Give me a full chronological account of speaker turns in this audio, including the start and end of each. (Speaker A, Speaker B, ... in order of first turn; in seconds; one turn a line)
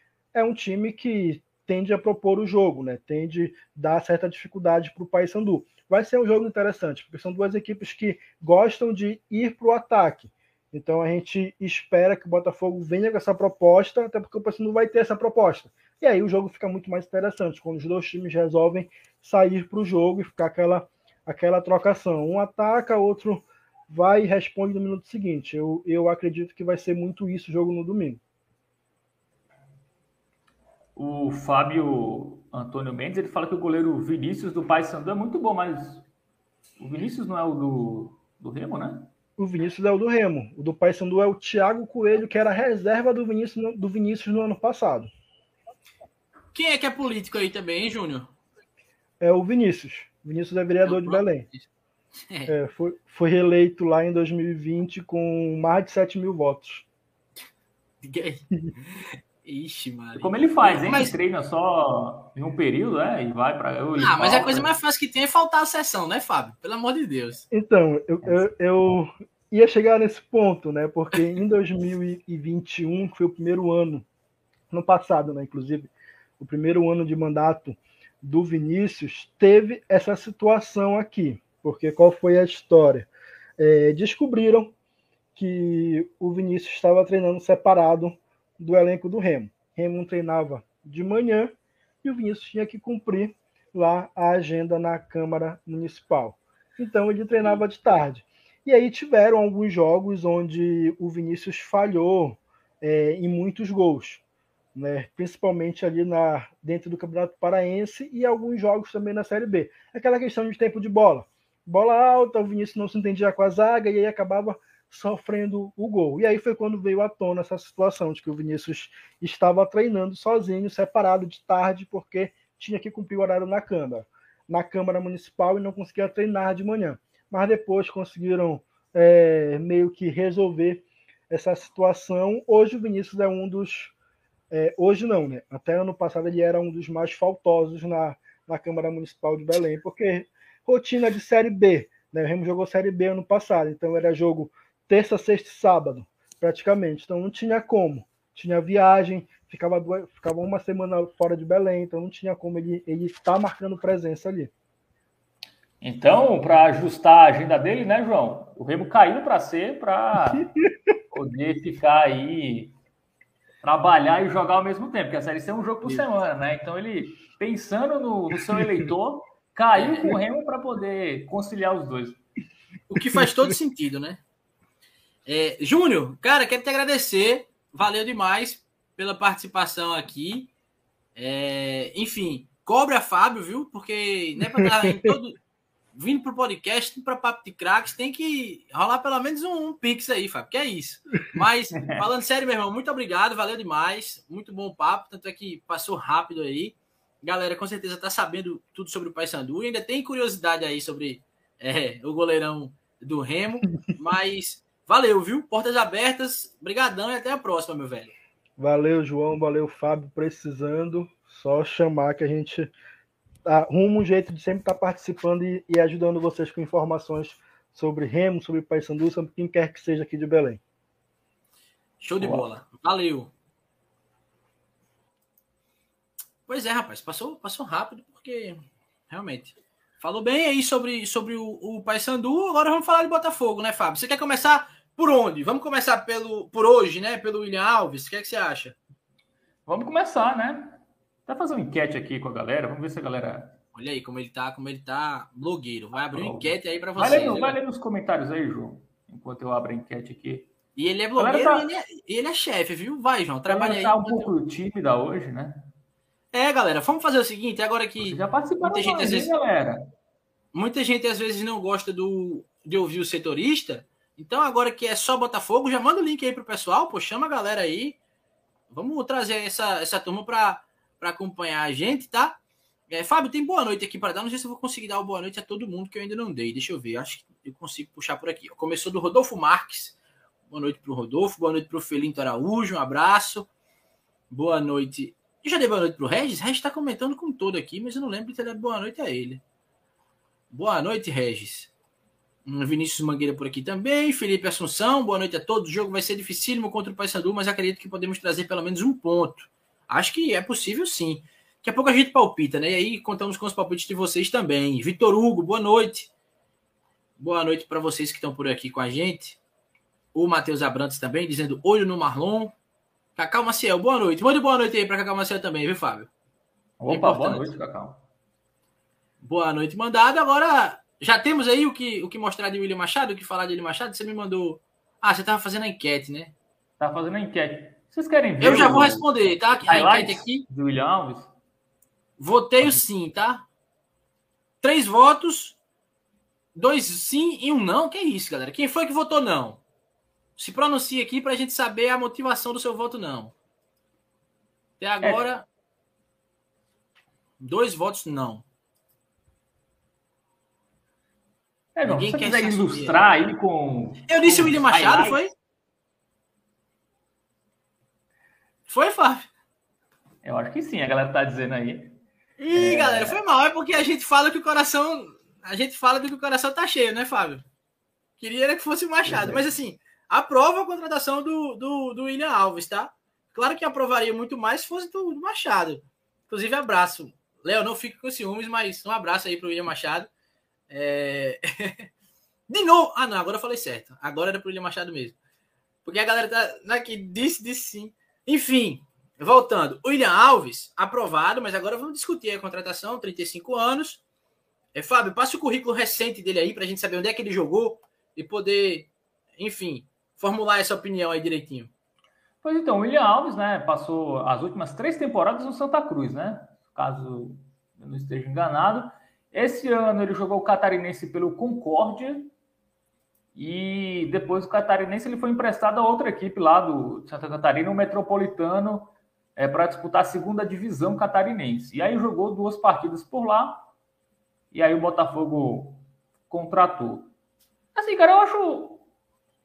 Speaker A: 0.3-28.2
Speaker B: 30.9-36.0
Speaker B: 36.8-39.1
Speaker A: 39.4-45.1
Speaker C: 46.5-48.3
Speaker A: 49.2-51.5
Speaker C: 50.8-51.7
Speaker A: 52.5-56.9
Speaker C: 58.0-61.1
Speaker B: 60.1-64.7
Speaker C: 64.0-67.4
Speaker A: 67.5-74.0
Speaker A: 74.7-84.7
Speaker A: 85.3-104.2
Speaker A: 104.7-133.9
Speaker A: 134.5-154.5
Speaker B: 155.8-160.5
Speaker B: 161.1-162.7
Speaker B: 163.6-172.2
Speaker C: 169.7-170.1
Speaker C: 172.9-174.2
Speaker C: 175.2-180.5
Speaker C: 181.2-185.4
Speaker C: 185.9-208.1
Speaker A: 208.6-212.7
Speaker A: 213.4-220.6
Speaker C: 222.0-223.3
Speaker C: 226.5-238.8
Speaker B: 239.7-243.6
Speaker C: 243.7-247.6
Speaker B: 246.1-250.5
Speaker C: 250.8-254.3
Speaker B: 251.2-251.7
Speaker B: 253.5-255.7
Speaker C: 256.3-259.3
Speaker B: 258.0-259.9
Speaker C: 260.5-268.0
Speaker C: 268.7-272.4
Speaker C: 272.9-279.9
Speaker C: 280.5-283.5
Speaker C: 284.3-289.4
Speaker C: 290.5-291.7
Speaker C: 292.4-306.1
Speaker C: 307.2-309.4
Speaker C: 310.1-312.5
Speaker C: 313.1-316.1
Speaker B: 316.8-318.0
Speaker C: 316.9-317.5
Speaker C: 319.2-326.3
Speaker B: 326.8-331.3
Speaker C: 328.4-330.4
Speaker C: 332.2-333.4
Speaker C: 334.6-335.6
Speaker C: 336.5-339.6
Speaker C: 340.4-343.3
Speaker C: 344.8-345.4
Speaker C: 347.4-348.4
Speaker B: 351.7-355.2
Speaker C: 351.8-353.0
Speaker C: 354.1-355.3
Speaker C: 358.7-359.3
Speaker B: 360.2-362.0
Speaker C: 362.4-367.4
Speaker B: 362.5-363.2
Speaker C: 368.2-380.1
Speaker B: 369.1-369.4
Speaker C: 380.7-381.9
Speaker C: 382.5-385.2
Speaker C: 385.8-394.0
Speaker C: 394.7-401.7
Speaker B: 402.4-412.3
Speaker B: 413.4-423.7
Speaker B: 424.5-427.1
Speaker B: 427.8-428.8